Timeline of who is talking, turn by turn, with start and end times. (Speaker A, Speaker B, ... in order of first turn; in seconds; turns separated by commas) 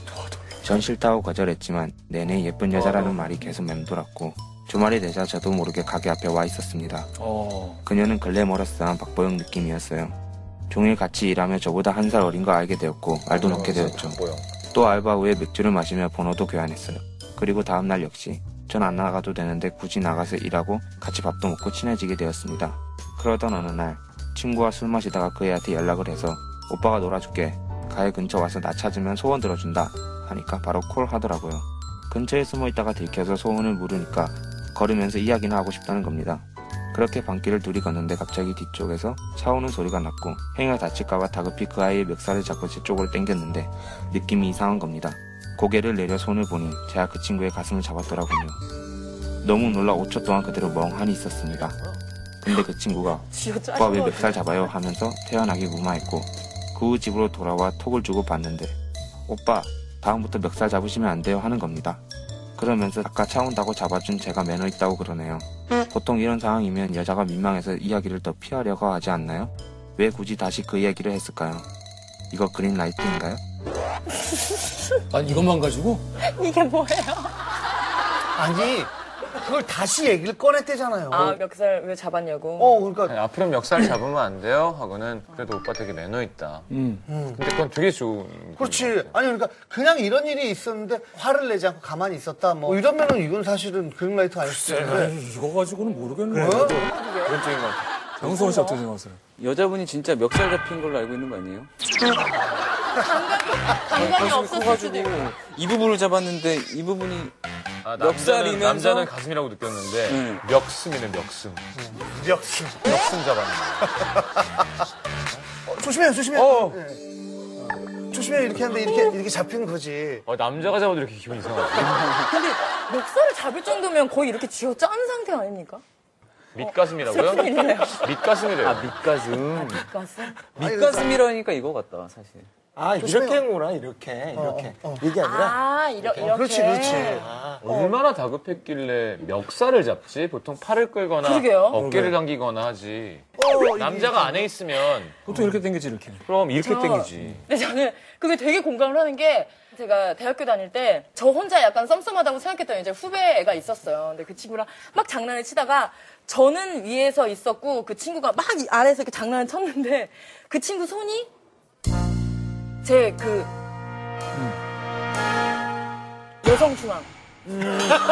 Speaker A: 0.6-7.1, Speaker B: 2.7-3.2, Speaker C: 7.2-7.8, Speaker A: 7.8-10.2, Speaker A: 10.7-48.6, Speaker D: 13.3-14.4, Speaker A: 49.4-51.8, Speaker A: 52.4-58.8, Speaker E: 53.3-54.7, Speaker A: 59.3-62.0, Speaker A: 62.6-71.7, Speaker A: 72.3-73.4, Speaker C: 75.1-76.0, Speaker E: 76.2-77.5, Speaker F: 78.4-81.4, Speaker E: 81.1-82.8, Speaker F: 82.6-83.2, Speaker B: 83.0-86.7, Speaker C: 86.7-87.0, Speaker F: 87.1-87.4, Speaker B: 87.3-89.1, Speaker F: 88.6-95.2, Speaker C: 94.7-96.8, Speaker F: 96.3-96.8, Speaker D: 96.6-96.8, Speaker E: 96.8-97.3, Speaker B: 97.3-97.8, Speaker D: 97.4-97.7, Speaker C: 98.2-99.2, Speaker E: 98.2-98.8, Speaker G: 99.4-101.7, Speaker E: 102.8-105.2, Speaker G: 103.9-107.3, Speaker B: 107.8-111.6, Speaker G: 108.0-109.1, Speaker G: 110.1-110.4, Speaker F: 111.8-112.9, Speaker B: 112.8-113.9, Speaker F: 114.0-114.5, Speaker F: 115.7-117.0, Speaker B: 116.4-116.8, Speaker F: 117.6-120.3, Speaker E: 118.9-119.2, Speaker B: 120.3-122.0, Speaker E: 122.1-125.8, Speaker B: 126.5-128.9, Speaker E: 126.6-128.1, Speaker G: 128.6-129.9, Speaker E: 129.5-130.4, Speaker G: 130.6-132.5, Speaker F: 130.6-131.2, Speaker D: 132.8-137.7, Speaker F: 133.0-133.4, Speaker F: 134.3-135.1, Speaker E: 135.2-137.2, Speaker F: 136.2-138.0, Speaker B: 137.6-145.2, Speaker E: 141.2-141.8, Speaker C: 141.8-142.2, Speaker F: 143.4-144.5, Speaker C: 145.3-146.2, Speaker B: 146.2-147.4, Speaker E: 146.6-161.3, Speaker E: 162.8-163.5, Speaker E: 166.4-167.1